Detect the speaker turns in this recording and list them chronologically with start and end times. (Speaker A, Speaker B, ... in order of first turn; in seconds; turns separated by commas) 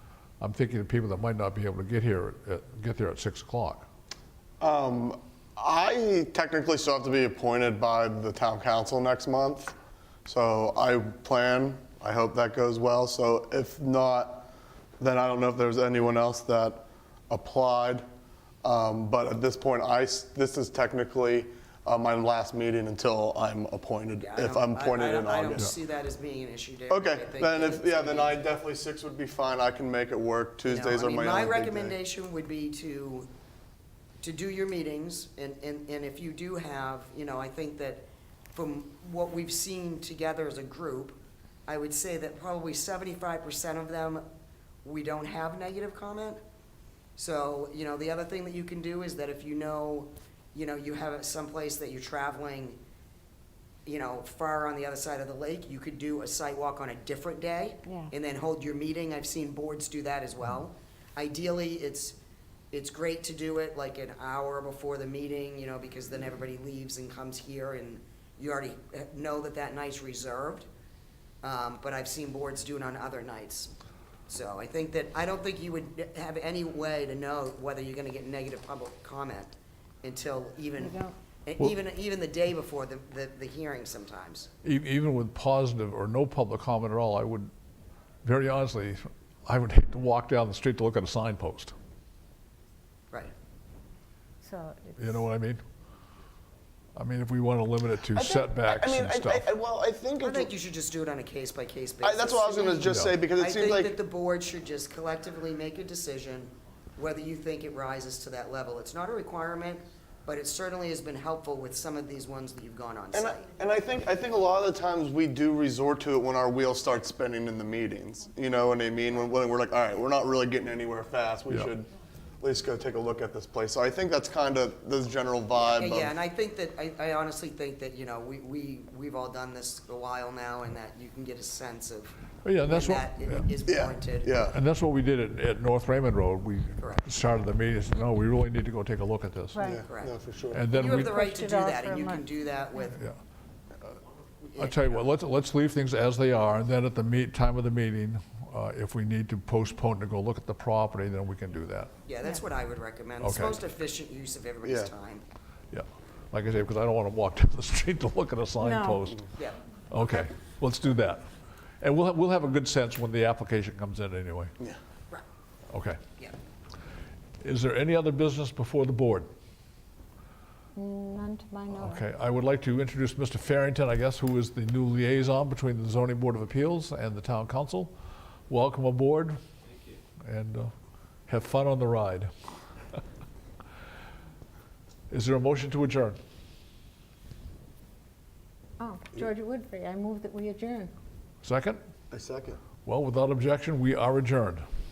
Speaker A: 0.4-3.9, Speaker B: 4.6-9.7, Speaker B: 10.3-14.5, Speaker B: 15.0-18.0, Speaker B: 18.6-25.7, Speaker C: 24.2-28.4, Speaker B: 26.9-31.9, Speaker C: 30.7-33.3, Speaker C: 34.2-44.2, Speaker C: 44.8-46.4, Speaker C: 47.2-52.8, Speaker C: 53.9-62.2, Speaker D: 57.9-58.1, Speaker C: 62.7-70.7, Speaker C: 71.4-73.7, Speaker C: 74.3-79.5, Speaker C: 80.0-84.5, Speaker D: 80.8-81.1, Speaker A: 84.6-87.5, Speaker A: 88.2-91.7, Speaker D: 94.4-95.2, Speaker A: 95.0-95.6, Speaker A: 97.0-99.5, Speaker B: 98.1-100.5, Speaker C: 100.2-113.5, Speaker B: 102.0-104.0, Speaker A: 102.8-103.2, Speaker B: 113.1-121.9, Speaker B: 122.4-126.1, Speaker C: 125.6-134.4, Speaker A: 132.4-133.5, Speaker B: 133.7-134.6, Speaker A: 134.5-139.6, Speaker C: 136.8-137.1, Speaker D: 139.5-139.8, Speaker B: 139.7-140.6, Speaker C: 139.8-140.1, Speaker A: 140.5-141.2, Speaker C: 140.7-143.0, Speaker D: 140.7-142.2, Speaker C: 144.4-145.1, Speaker A: 144.6-151.9, Speaker C: 152.1-155.2, Speaker A: 153.2-153.6, Speaker B: 154.6-154.9, Speaker A: 155.7-159.3, Speaker D: 158.6-159.0, Speaker A: 159.9-161.3, Speaker A: 161.8-164.5, Speaker A: 165.7-166.0, Speaker A: 167.4-169.3, Speaker D: 170.8-172.0, Speaker A: 171.7-177.9, Speaker A: 178.5-179.4, Speaker A: 180.2-180.7, Speaker A: 181.3-182.3, Speaker A: 185.1-186.2, Speaker D: 188.8-190.9, Speaker A: 191.4-191.8, Speaker B: 192.1-192.6, Speaker A: 192.8-194.6